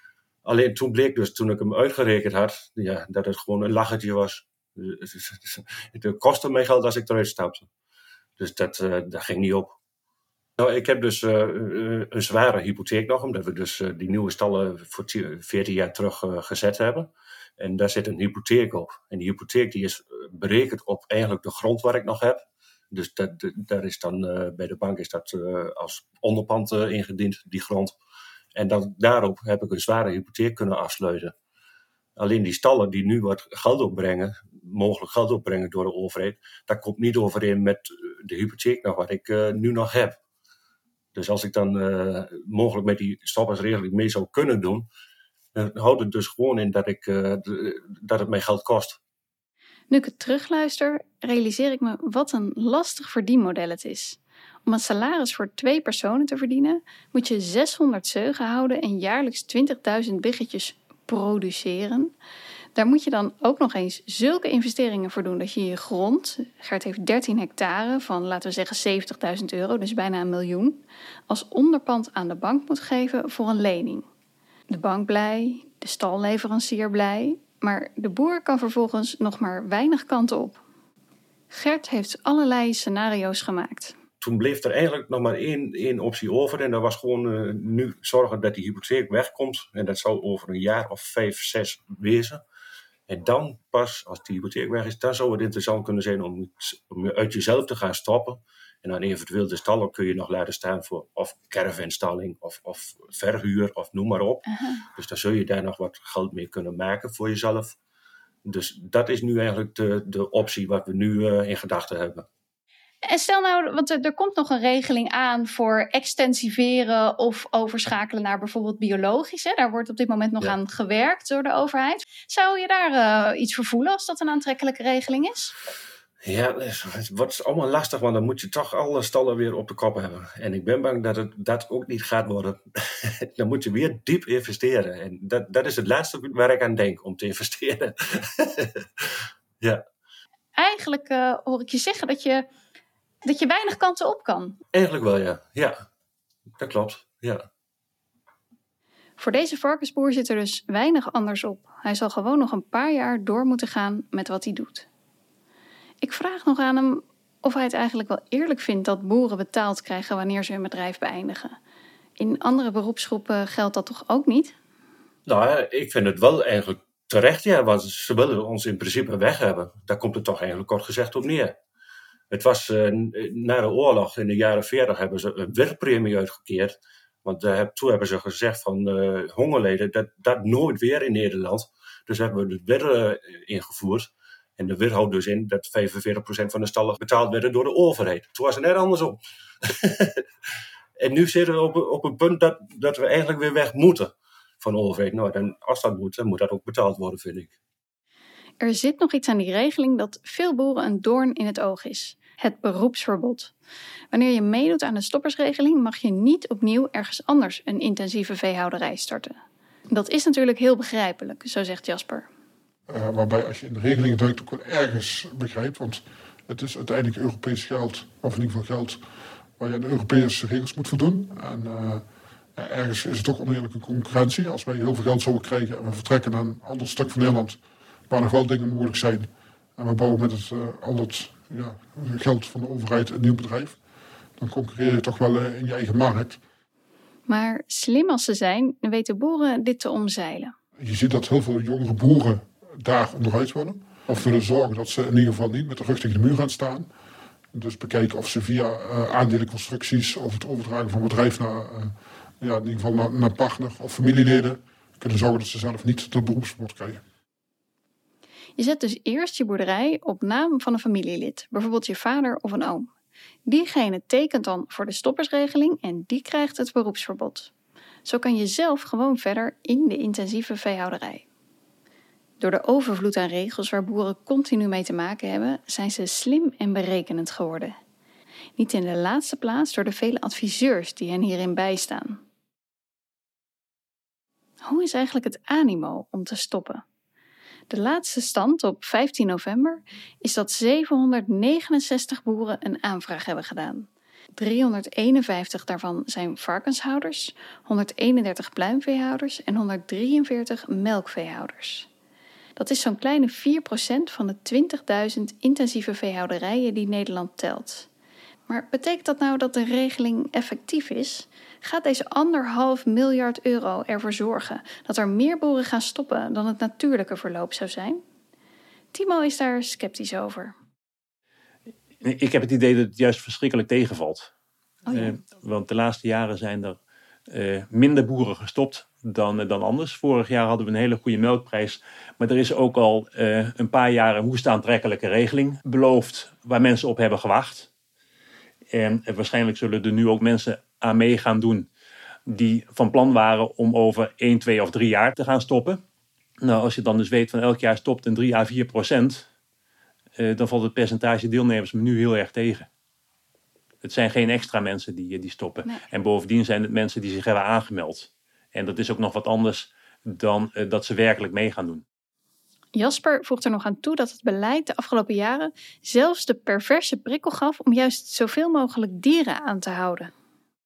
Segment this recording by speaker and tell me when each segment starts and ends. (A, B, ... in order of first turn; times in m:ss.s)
0:00.4-0:07.7 A
0:08.4-0:09.8 A
0:10.6-0:28.0 A
0:28.5-0:31.3 A
0:32.2-0:40.2 A
0:41.1-0:44.9 A
0:45.5-0:49.0 A
0:49.9-1:02.1 B
1:02.7-1:14.0 B
1:14.7-1:20.6 B
1:21.5-1:23.9 B
1:24.2-1:32.4 A
1:33.1-1:47.8 A
1:44.5-1:44.8 B
1:48.4-1:52.3 A
1:53.0-2:05.5 B
2:06.2-2:19.1 A
2:20.6-2:22.4 B
2:23.2-2:24.6 B
2:24.7-2:25.8 A
2:26.6-2:27.4 A
2:29.2-2:34.8 B
2:36.0-2:41.6 B
2:42.2-2:44.5 B
2:45.3-2:51.5 A
2:52.3-3:10.2 A
3:11.0-3:17.5 A
3:18.6-3:23.5 B
3:24.1-3:29.4 B
3:29.9-3:32.3 B
3:32.9-3:39.0 C
3:39.6-3:42.0 C
3:42.6-3:47.6 C
3:48.1-3:53.8 C
3:54.4-3:56.4 C
3:57.3-4:00.5 B
4:00.8-4:06.9 C
4:07.5-4:17.0 C
4:18.6-4:22.9 B
4:23.4-4:27.5 B
4:28.0-4:31.2 B
4:32.4-4:37.7 B
4:38.6-4:42.2 B
4:44.6-4:46.8 B
4:47.7-5:01.9 B
5:02.6-5:07.9 B
5:08.5-5:18.0 B
5:18.9-5:20.5 B
5:22.0-5:24.3 D
5:24.9-5:25.1 B
5:24.9-5:26.8 D
5:27.3-5:37.7 D
5:38.7-5:41.7 D
5:42.3-5:45.8 D
5:46.4-5:49.2 D
5:50.2-5:52.7 D
5:53.8-6:01.8 D
6:02.7-6:10.1 B